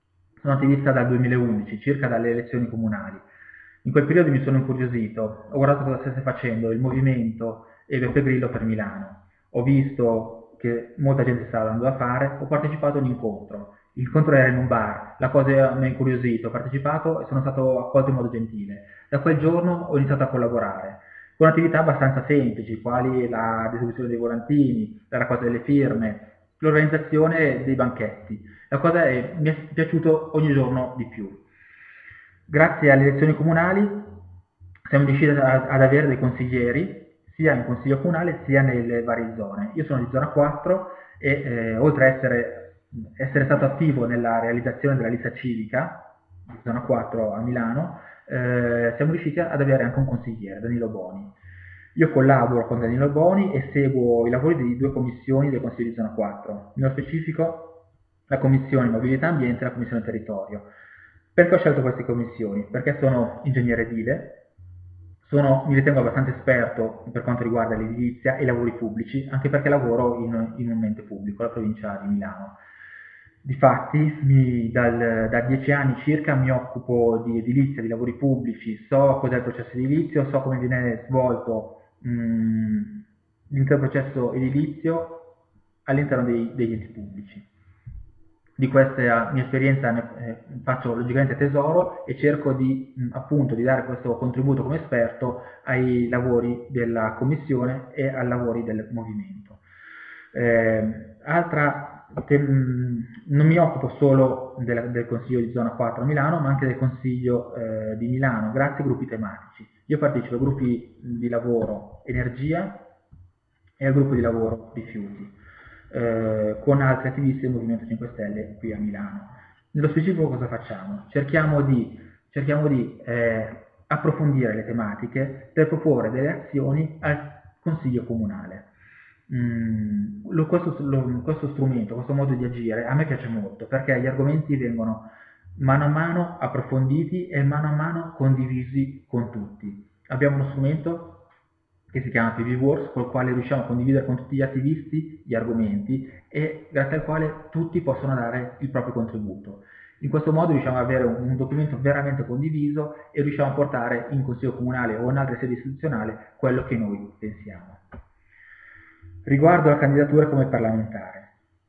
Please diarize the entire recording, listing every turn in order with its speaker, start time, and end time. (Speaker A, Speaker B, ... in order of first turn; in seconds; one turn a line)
Speaker A: 0.4-3.2
Speaker A: 3.8-31.4
Speaker A: 32.5-34.2
Speaker A: 34.9-51.3
Speaker A: 52.0-57.7
Speaker A: 58.3-60.7
Speaker A: 61.4-64.4
Speaker A: 65.2-72.6
Speaker A: 73.4-85.3
Speaker A: 85.9-87.5
Speaker A: 88.6-99.6
Speaker A: 100.3-112.8
Speaker A: 113.8-115.3
Speaker A: 115.9-128.7
Speaker A: 129.3-141.3
Speaker A: 141.9-157.8
Speaker A: 159.3-161.3